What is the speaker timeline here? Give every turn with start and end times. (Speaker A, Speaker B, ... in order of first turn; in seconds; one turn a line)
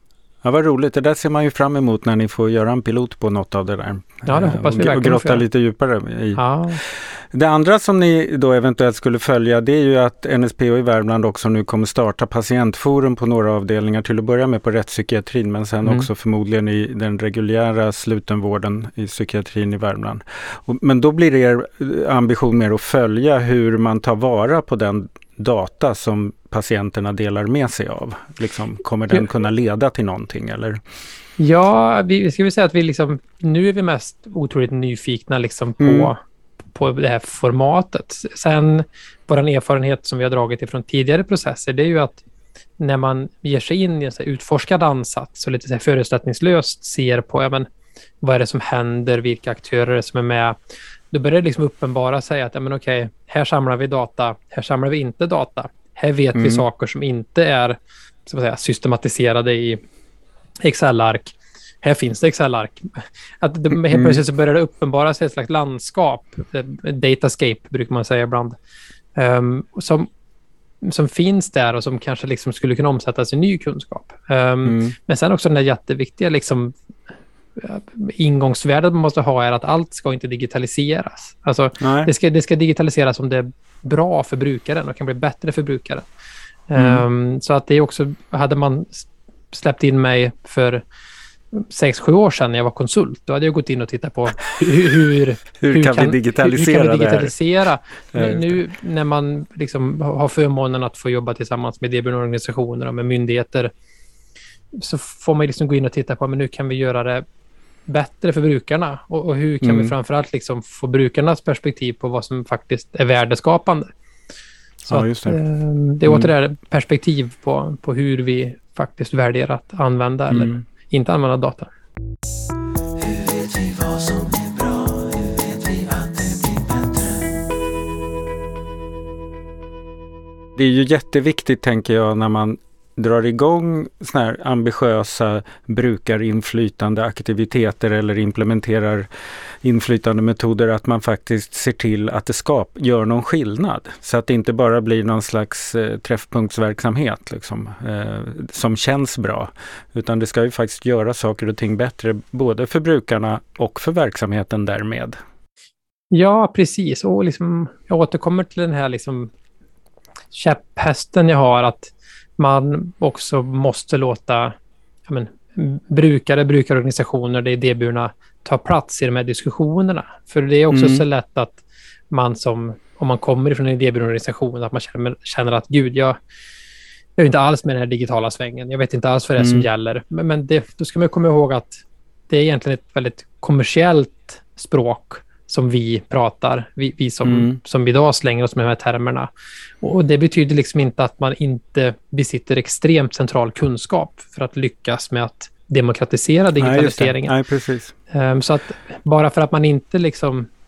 Speaker A: 0.4-30.8
Speaker B: 4.3-5.5
Speaker B: 6.4-6.8
Speaker B: 15.8-16.1
Speaker B: 31.4-36.2
Speaker A: 35.8-36.1
Speaker B: 36.7-42.2
Speaker B: 42.8-47.7
Speaker B: 48.2-50.6
Speaker B: 51.1-59.8
Speaker A: 56.4-56.6
Speaker B: 60.6-68.6
Speaker A: 63.8-64.2
Speaker B: 69.2-70.1
Speaker B: 70.8-76.8
Speaker A: 74.7-75.0
Speaker B: 77.6-86.1
Speaker A: 81.8-82.1
Speaker B: 86.7-90.8
Speaker A: 86.8-87.0
Speaker B: 91.5-103.7
Speaker A: 95.6-97.3
Speaker A: 98.1-98.6
Speaker B: 104.7-107.2
Speaker B: 107.9-113.9
Speaker A: 109.6-109.9
Speaker A: 114.9-115.4
Speaker B: 114.9-121.7
Speaker A: 116.1-116.3
Speaker A: 120.3-120.6
Speaker A: 123.0-127.3
Speaker A: 130.6-139.1
Speaker A: 139.6-155.2
Speaker B: 156.1-159.3
Speaker B: 160.3-164.6
Speaker B: 165.1-176.2
Speaker A: 170.7-171.0
Speaker B: 177.2-189.3
Speaker A: 179.4-179.7
Speaker A: 187.2-187.6
Speaker B: 189.8-197.3
Speaker A: 196.6-197.9
Speaker B: 198.1-200.5